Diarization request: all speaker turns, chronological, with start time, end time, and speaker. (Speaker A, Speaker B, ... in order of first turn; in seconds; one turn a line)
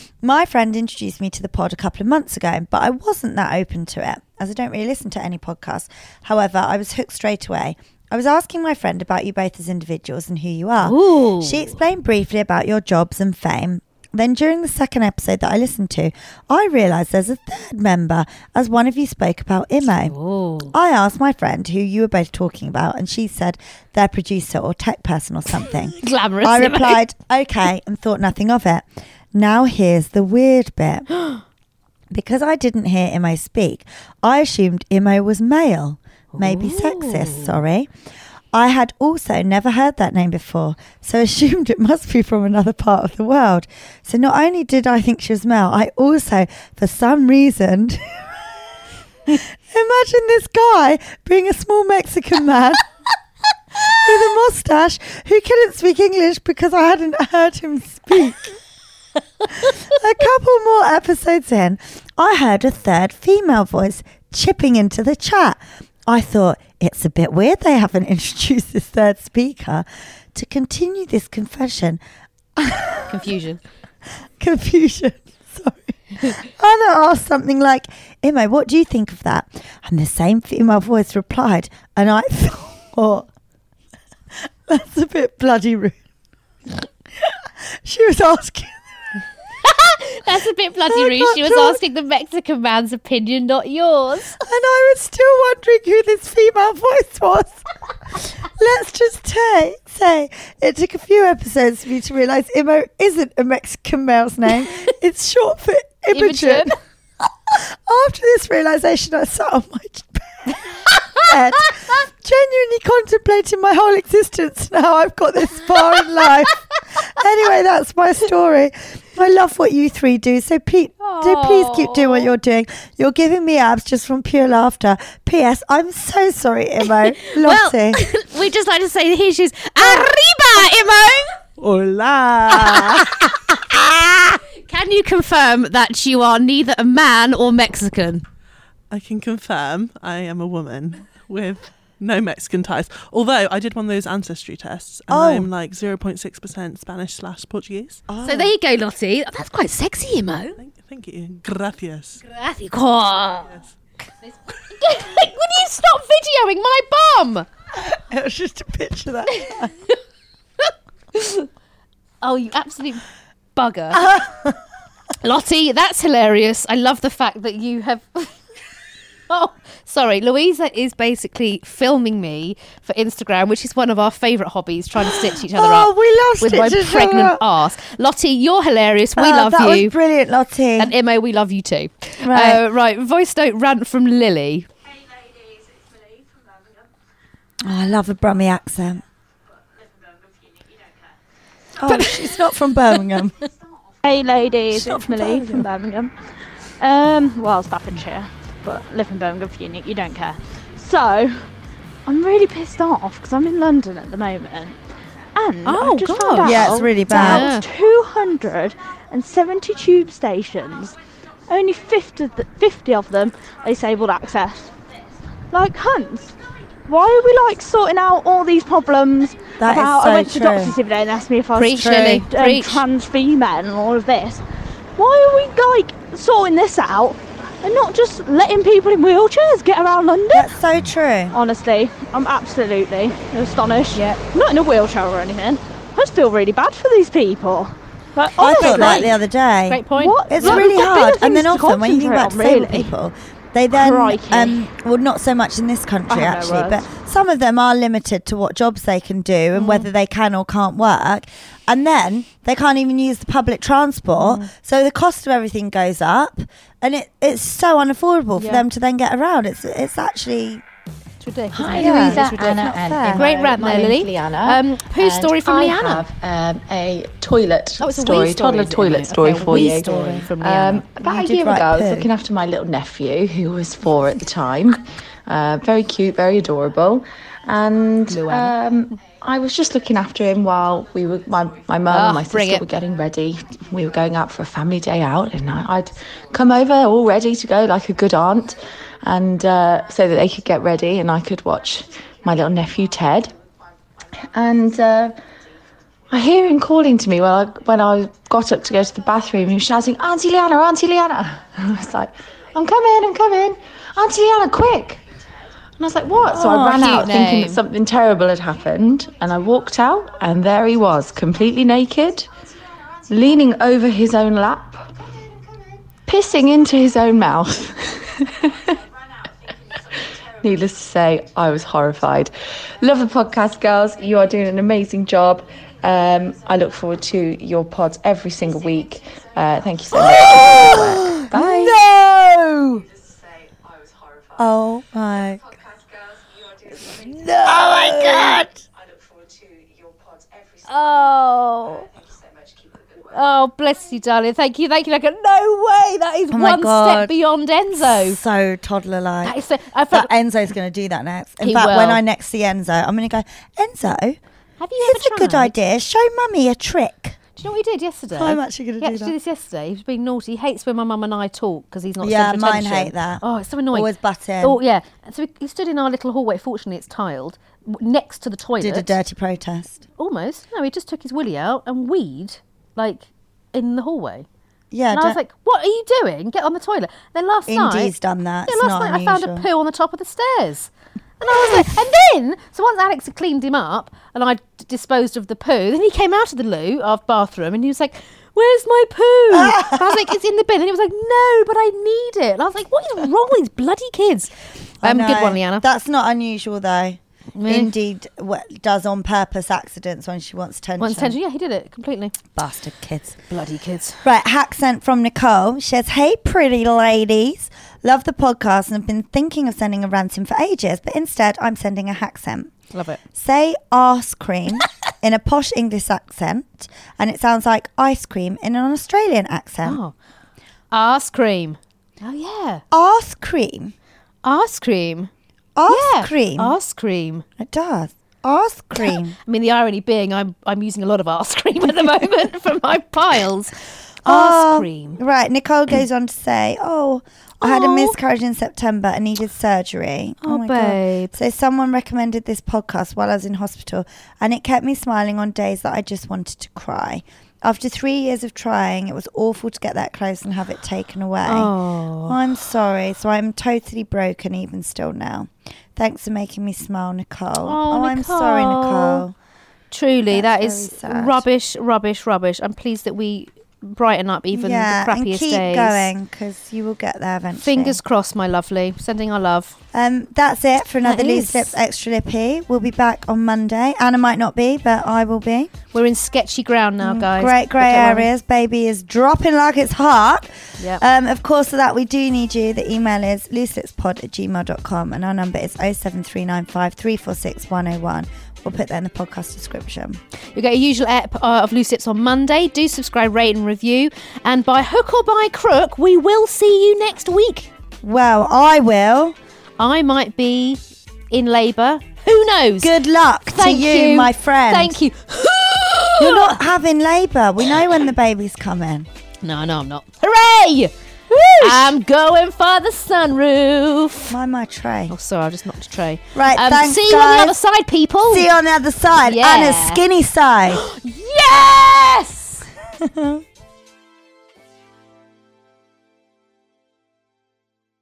Speaker A: 0.2-20.1
Speaker B: 10.8-11.8
Speaker B: 19.9-20.7
Speaker A: 20.7-31.1
Speaker B: 26.0-27.0
Speaker A: 32.1-37.9
Speaker B: 36.4-37.5
Speaker A: 38.5-48.2
Speaker A: 49.3-52.8
Speaker A: 53.9-58.5
Speaker A: 59.8-72.0
Speaker A: 72.6-73.2
Speaker B: 73.1-73.6
Speaker A: 74.4-83.3
Speaker A: 84.7-86.0
Speaker A: 87.7-89.2
Speaker B: 89.6-94.3
Speaker A: 90.9-91.8
Speaker A: 94.4-97.6
Speaker A: 98.4-106.7
Speaker B: 106.1-106.7
Speaker A: 107.5-116.6
Speaker A: 117.2-128.0
Speaker B: 121.0-122.3
Speaker B: 127.4-138.2
Speaker A: 129.8-130.1
Speaker A: 132.4-132.9
Speaker C: 138.9-148.0
Speaker A: 145.1-145.5
Speaker A: 148.1-148.5
Speaker B: 148.2-150.6
Speaker C: 150.6-152.2
Speaker B: 152.2-153.5
Speaker B: 154.2-157.4
Speaker A: 157.8-159.7
Speaker B: 159.4-159.9
Speaker B: 161.1-161.5
Speaker B: 162.2-164.0
Speaker A: 163.9-164.6
Speaker B: 165.2-168.3
Speaker B: 169.3-179.9
Speaker A: 175.0-177.4
Speaker A: 179.2-180.9
Speaker B: 180.8-184.7
Speaker A: 182.2-182.6
Speaker A: 187.6-189.0
Speaker A: 191.8-193.4
Speaker D: 191.9-192.1
Speaker D: 194.0-201.5
Speaker A: 194.7-195.7
Speaker D: 202.1-204.8
Speaker D: 205.3-214.7
Speaker B: 205.6-207.7
Speaker A: 206.4-207.5
Speaker D: 215.5-224.4
Speaker A: 219.6-220.7
Speaker B: 221.5-222.8
Speaker A: 221.7-222.2
Speaker D: 224.9-230.6
Speaker A: 230.3-231.4
Speaker D: 231.3-239.2
Speaker B: 233.9-234.2
Speaker A: 238.4-260.6
Speaker B: 239.7-240.7
Speaker D: 239.9-243.0
Speaker D: 243.7-244.6
Speaker D: 246.1-246.8
Speaker B: 249.5-249.9
Speaker B: 254.2-254.5
Speaker B: 258.3-258.6
Speaker B: 261.2-266.0
Speaker E: 261.5-293.3
Speaker A: 261.8-263.3
Speaker B: 267.8-270.9
Speaker A: 271.1-272.1
Speaker B: 278.1-278.6
Speaker B: 281.9-282.6
Speaker E: 294.3-295.2
Speaker E: 296.1-305.0
Speaker E: 305.8-312.3
Speaker A: 306.3-307.0
Speaker B: 306.7-307.6
Speaker E: 313.1-314.9
Speaker E: 316.0-318.8
Speaker E: 320.3-331.8
Speaker A: 329.9-332.9
Speaker A: 334.4-335.5
Speaker A: 337.0-338.6
Speaker B: 340.6-341.9
Speaker B: 343.1-348.2
Speaker A: 346.3-347.1
Speaker A: 347.7-349.4
Speaker B: 349.2-350.1
Speaker A: 349.9-354.2
Speaker B: 351.4-352.0
Speaker B: 354.6-355.6
Speaker A: 354.8-357.2
Speaker B: 357.4-369.0
Speaker A: 358.1-359.1
Speaker A: 362.0-364.6
Speaker A: 368.6-369.8
Speaker B: 370.0-374.2
Speaker A: 374.7-375.2
Speaker B: 374.9-377.9
Speaker A: 377.5-379.5
Speaker B: 378.4-395.6
Speaker A: 389.3-389.9
Speaker A: 394.8-401.2
Speaker B: 397.4-397.7
Speaker B: 400.8-402.2
Speaker A: 402.3-403.2
Speaker B: 403.3-404.0
Speaker A: 404.0-412.5
Speaker B: 412.7-413.0
Speaker A: 413.1-419.8
Speaker B: 419.6-419.9
Speaker B: 420.7-422.6
Speaker A: 422.7-423.7
Speaker B: 424.2-425.1
Speaker A: 425.6-426.6
Speaker B: 425.7-427.2
Speaker A: 427.4-429.1
Speaker B: 428.8-435.0
Speaker A: 434.0-459.1
Speaker B: 437.4-437.9
Speaker B: 440.2-441.1
Speaker B: 451.2-452.2
Speaker B: 457.4-459.0
Speaker B: 459.7-465.9
Speaker A: 460.1-461.2
Speaker A: 464.3-467.8
Speaker B: 467.4-469.6
Speaker A: 469.7-475.5
Speaker B: 470.8-471.6
Speaker B: 475.7-478.1
Speaker A: 476.8-490.0
Speaker B: 480.6-480.8
Speaker B: 490.3-497.5
Speaker A: 497.8-499.1
Speaker B: 499.6-502.7
Speaker A: 502.6-504.8
Speaker B: 503.3-506.4
Speaker A: 506.0-508.9
Speaker B: 509.2-510.7
Speaker A: 511.1-511.7
Speaker B: 511.3-514.1
Speaker A: 514.1-514.9
Speaker B: 514.9-518.3
Speaker A: 516.1-517.4
Speaker A: 518.0-520.6
Speaker B: 519.0-519.8
Speaker B: 520.5-522.5
Speaker A: 522.8-523.2